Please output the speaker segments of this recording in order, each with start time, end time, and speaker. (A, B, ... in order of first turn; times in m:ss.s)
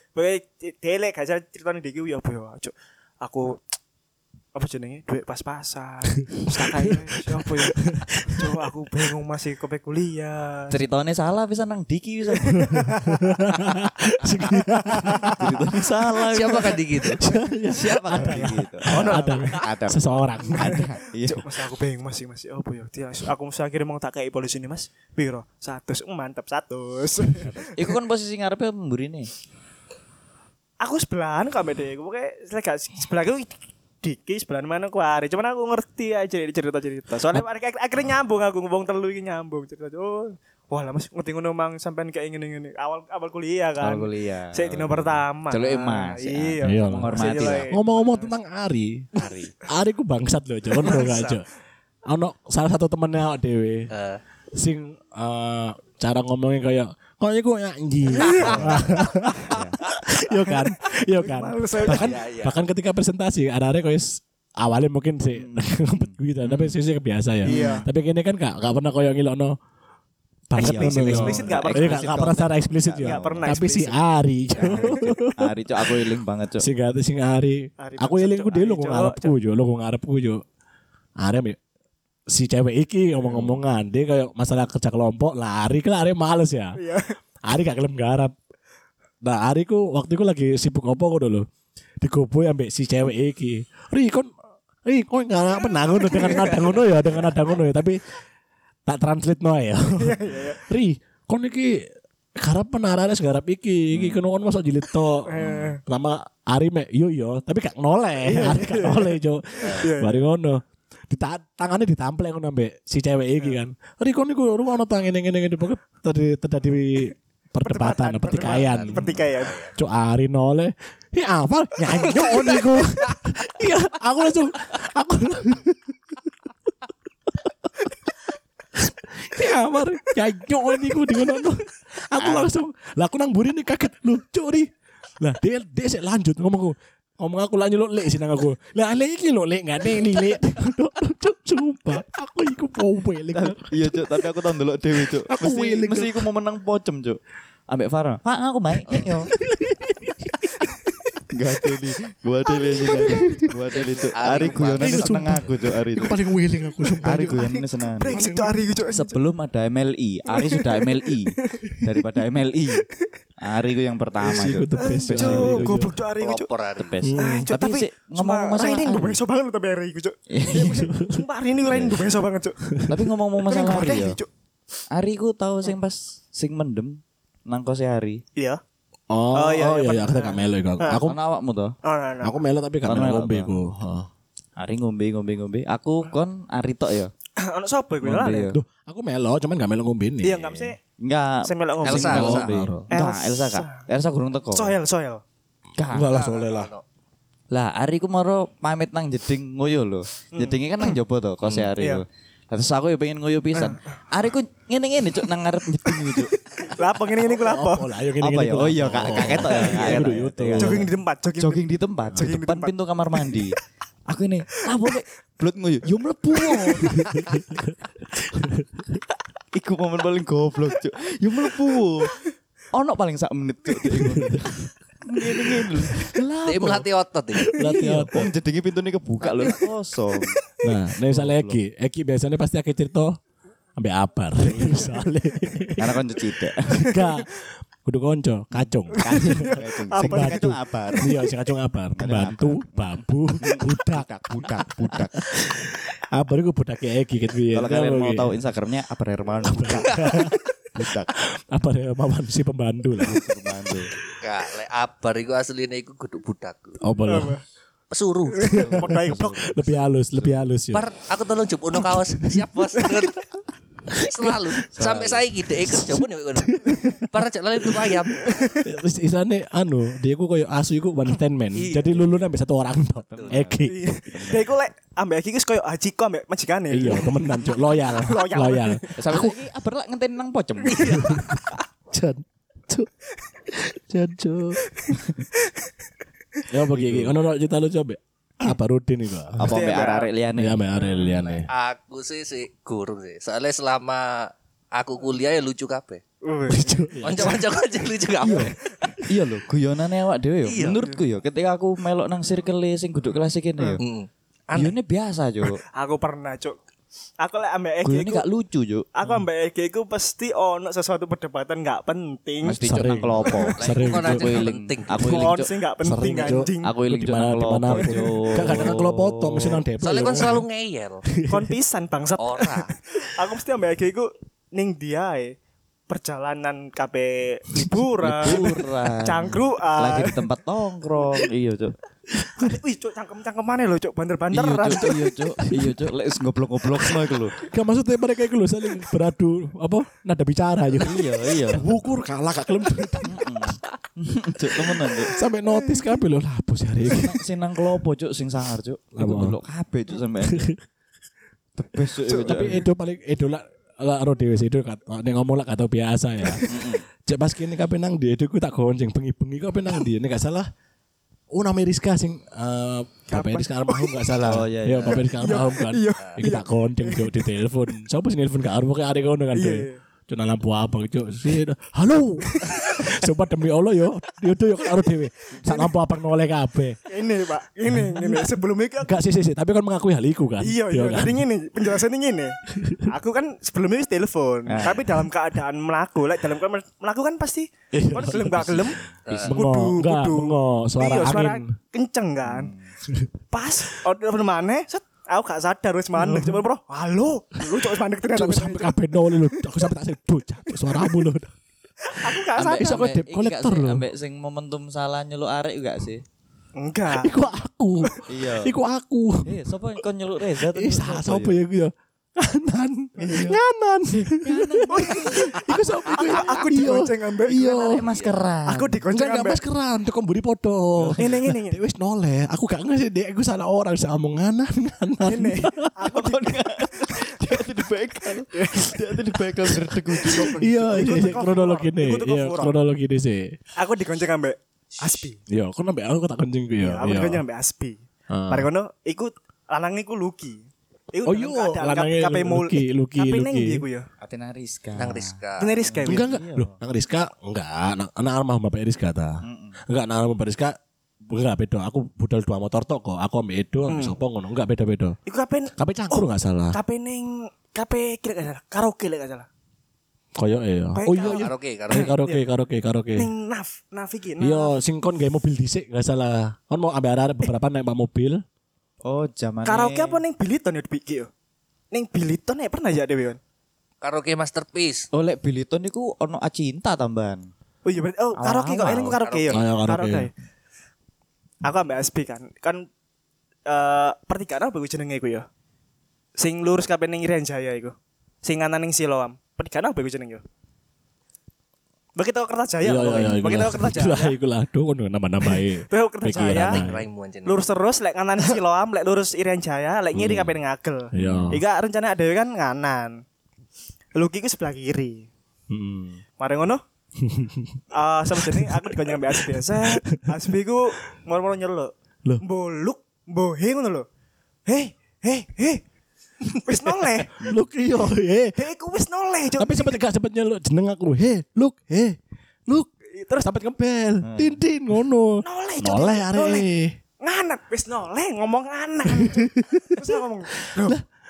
0:00.2-0:03.6 A
0:04.6-0:10.8 A
0:06.3-0:08.5 B
0:10.7-0:12.8 C
0:12.4-0:13.5 A
0:12.6-0:16.2 B
0:14.4-0:15.3 A
0:15.1-0:16.9 C
0:16.3-0:17.2 D
0:16.8-0:21.0 B
0:17.7-0:21.6 C
0:18.9-0:19.6 A
0:18.9-0:19.6 D
0:20.5-0:27.7 A
0:27.4-0:29.3 C
0:30.8-0:48.3 A
0:43.8-0:47.7 C
0:46.6-0:49.1 B
0:49.2-0:49.5 C
0:49.7-0:51.5 B
0:50.8-0:51.4 D
0:52.1-0:53.9 B
0:53.9-0:54.2 D
0:54.5-1:09.6 B
0:58.1-0:59.5 A
0:58.4-0:58.9 C
0:59.4-0:59.8 C
1:00.3-1:02.2 A
1:01.9-1:02.6 D
1:05.3-1:06.8 C
1:07.4-1:07.9 C
1:07.5-1:07.9 A
1:10.5-1:20.4 B
1:10.6-1:13.6 C
1:10.6-1:12.2 A
1:13.0-1:15.0 A
1:14.6-1:16.7 C
1:17.8-1:19.4 A
1:21.2-1:21.6 B
1:22.3-1:26.8 B
1:23.2-1:23.6 C
1:26.8-1:27.2 A
1:27.5-1:28.3 B
1:29.2-1:31.5 B
1:32.0-1:34.3 B
1:34.8-1:38.0 B
1:36.1-1:36.6 A
1:37.1-1:37.4 C
1:38.9-1:59.2 B
1:40.0-1:40.6 A
1:43.9-1:44.2 C
1:45.3-1:45.8 A
1:45.4-1:45.7 C
1:48.2-1:50.3 A
1:57.6-1:59.6 A
1:58.4-1:59.7 D
1:59.8-2:06.1 B
2:02.1-2:02.7 A
2:07.4-2:07.7 B
2:08.8-2:14.7 B
2:12.2-2:12.5 C
2:15.2-2:24.1 B
2:23.4-2:29.3 C
2:25.0-2:26.3 B
2:28.8-2:30.7 B
2:31.3-2:36.2 C
2:32.8-2:33.4 A
2:33.0-2:33.5 B
2:33.7-2:35.2 D
2:34.8-2:37.5 B
2:37.0-2:38.2 C
2:37.3-2:39.2 A
2:38.1-2:38.6 B
2:38.9-2:42.8 C
2:40.3-2:42.0 A
2:42.8-2:43.1 A
2:43.4-2:45.8 C
2:44.2-2:46.0 B
2:44.8-2:46.5 A
2:46.2-2:47.0 D
2:46.8-2:49.2 C
2:47.0-2:47.5 B
2:47.2-2:52.6 A
2:50.3-2:50.9 C
2:50.6-2:51.2 B
2:51.7-2:52.1 C
2:52.7-2:53.1 B
2:52.9-2:54.2 C
2:53.4-2:54.3 A
2:54.9-2:58.2 C
2:59.1-3:01.2 B
2:59.3-3:01.0 A
3:01.0-3:01.8 C
3:01.8-3:02.4 A
3:02.2-3:04.1 B
3:02.8-3:03.5 C
3:04.6-3:07.1 C
3:07.4-3:08.5 A
3:08.0-3:08.6 C
3:08.5-3:10.7 B
3:10.2-3:10.8 A
3:11.0-3:14.8 C
3:11.4-3:12.4 A
3:11.8-3:12.5 D
3:12.0-3:12.9 B
3:12.9-3:13.8 A
3:14.5-3:15.2 A
3:15.8-3:16.1 C
3:15.9-3:16.7 B
3:16.1-3:16.8 D
3:17.5-3:26.4 C
3:20.3-3:20.9 A
3:21.8-3:22.0 A
3:23.6-3:23.8 A
3:25.9-3:27.9 A
3:27.2-3:30.9 B
3:28.2-3:33.6 C
3:29.4-3:33.4 A
3:34.1-3:37.1 C
3:36.4-3:37.0 A
3:36.9-3:37.8 B
3:38.3-3:39.0 B
3:39.5-3:42.1 C
3:42.7-3:46.8 C
3:43.8-3:44.7 B
3:45.2-3:46.8 B
3:46.4-3:47.6 D
3:47.4-3:48.3 B
3:47.6-3:50.4 C
3:49.2-3:49.7 D
3:50.6-3:53.2 B
3:51.1-3:51.6 C
3:53.8-3:56.0 B
3:55.8-3:56.9 C
3:56.7-3:57.1 A
3:56.7-4:08.3 B
3:58.5-4:01.1 C
3:58.9-4:01.2 A
4:02.0-4:05.2 C
4:07.5-4:11.1 C
4:09.5-4:13.2 B
4:13.0-4:13.9 C
4:14.2-4:16.8 D
4:16.8-4:17.4 B
4:17.1-4:17.4 A
4:17.9-4:18.7 D
4:18.4-4:19.4 A
4:18.5-4:20.8 B
4:18.5-4:20.4 C
4:20.7-4:23.2 D
4:21.8-4:22.4 B
4:23.9-4:24.6 B
4:24.0-4:28.5 D
4:24.8-4:25.2 C
4:25.6-4:28.0 B
4:28.3-4:28.6 A
4:28.6-4:33.8 B
4:31.5-4:32.3 D
4:33.0-4:34.5 C
4:33.2-4:33.4 D
4:33.6-4:39.0 A
4:36.7-4:39.4 B
4:39.0-4:41.3 C
4:40.7-4:41.4 A
4:40.9-4:42.9 B
4:43.5-4:44.6 B
4:44.7-4:45.7 A
4:46.5-4:49.5 B
4:46.7-4:47.2 C
4:49.4-4:50.6 C
4:49.5-4:50.1 A
4:50.4-4:51.5 B
4:51.5-4:56.0 D
4:56.2-4:57.4 A
4:56.5-4:57.4 B
4:57.0-4:58.6 D
4:58.2-5:03.8 C
5:00.4-5:00.8 D
5:03.8-5:04.8 D
5:04.5-5:05.6 C
5:05.8-5:06.6 A
5:07.2-5:08.3 A
5:07.8-5:08.9 C
5:09.0-5:12.7 A
5:12.4-5:15.5 C
5:12.6-5:14.5 B
5:13.2-5:13.8 A
5:13.6-5:15.2 D
5:15.0-5:16.7 A
5:15.8-5:20.4 B
5:16.2-5:19.6 C
5:19.8-5:21.0 D
5:21.1-5:21.5 B
5:21.3-5:25.4 A
5:22.2-5:22.7 D
5:25.9-5:30.2 A
5:27.6-5:28.6 B
5:28.0-5:31.7 C
5:32.2-5:32.6 B
5:32.4-5:35.1 A
5:34.3-5:37.4 C
5:35.4-5:35.8 B
5:37.5-5:43.2 B
5:40.8-5:41.7 C
5:43.0-5:45.2 C
5:45.1-5:47.2 B
5:45.5-5:45.8 A
5:46.8-5:50.5 C
5:49.0-5:49.4 B
5:50.2-5:50.6 B
5:51.6-5:52.6 C
5:52.1-5:52.6 A
5:52.1-6:00.5 B
5:56.4-5:56.8 C
6:01.3-6:16.8 B
6:03.1-6:04.0 A
6:04.2-6:05.1 C
6:04.9-6:07.2 A
6:09.3-6:09.8 A
6:12.3-6:12.9 A
6:16.9-6:19.0 A
6:17.7-6:21.3 B
6:20.4-6:32.5 A
6:22.5-6:22.9 B
6:24.5-6:24.9 C
6:27.7-6:28.8 B
6:28.2-6:29.3 C
6:29.1-6:29.4 D
6:29.3-6:31.6 B
6:32.2-6:32.7 C
6:33.3-6:38.8 A
6:36.0-6:36.4 B
6:38.1-6:41.3 B
6:40.5-6:41.0 A
6:41.8-6:42.9 A
6:42.0-6:43.8 B
6:42.4-6:46.0 C
6:46.6-6:47.3 A
6:46.9-6:49.8 B
6:48.1-6:48.5 C
6:49.2-6:51.4 C
6:50.4-6:57.9 B
6:53.0-6:53.4 C
6:53.0-6:53.3 A
6:54.0-6:56.0 C
6:54.7-6:57.8 A
6:57.4-6:58.8 C
6:58.5-6:59.4 A
6:58.8-7:05.7 B
7:00.8-7:01.1 C
7:01.0-7:01.6 A
7:05.0-7:07.1 A
7:05.9-7:10.4 C
7:08.3-7:08.9 A
7:09.6-7:12.6 A
7:10.0-7:13.3 B
7:13.6-7:15.2 A
7:15.3-7:17.2 B
7:16.6-7:23.9 A
7:18.1-7:18.5 B
7:21.0-7:23.6 B
7:24.0-7:26.6 C
7:24.8-7:25.6 D
7:25.4-7:26.2 A
7:25.9-7:30.6 B
7:29.2-7:29.6 C
7:31.1-7:35.0 B
7:33.7-7:34.0 A
7:35.1-7:39.3 A
7:35.6-7:36.6 B
7:40.2-7:43.1 B
7:40.8-7:42.2 A
7:41.0-7:42.0 D
7:43.0-7:44.5 A
7:44.2-7:48.2 B
7:48.8-7:50.0 C
7:49.4-7:51.1 A
7:51.7-7:53.2 A
7:53.8-7:54.9 D
7:54.9-7:57.3 C
7:57.6-8:00.1 A
7:58.2-7:59.0 C
7:59.0-7:59.5 D
7:59.3-8:00.1 B
8:01.4-8:02.7 A
8:03.5-8:05.3 A
8:06.2-8:10.2 A
8:12.0-8:14.2 A
8:12.6-8:16.9 B
8:15.7-8:16.7 A
8:16.4-8:17.4 D
8:17.2-8:23.0 A
8:20.0-8:20.3 B
8:20.9-8:21.4 B
8:21.0-8:21.3 C
8:24.0-8:25.1 A
8:25.5-8:26.0 B
8:26.2-8:26.6 A
8:27.0-8:27.6 B
8:27.7-8:33.9 A
8:28.2-8:30.1 B
8:34.5-8:35.6 A
8:36.3-8:37.1 A
8:36.6-8:38.4 B
8:38.4-8:39.8 A
8:39.4-8:46.8 B
8:42.9-8:43.3 A
8:44.0-8:44.4 C
8:45.2-8:46.5 A
8:47.0-8:50.8 A
8:48.9-8:50.0 B
8:50.5-8:50.8 B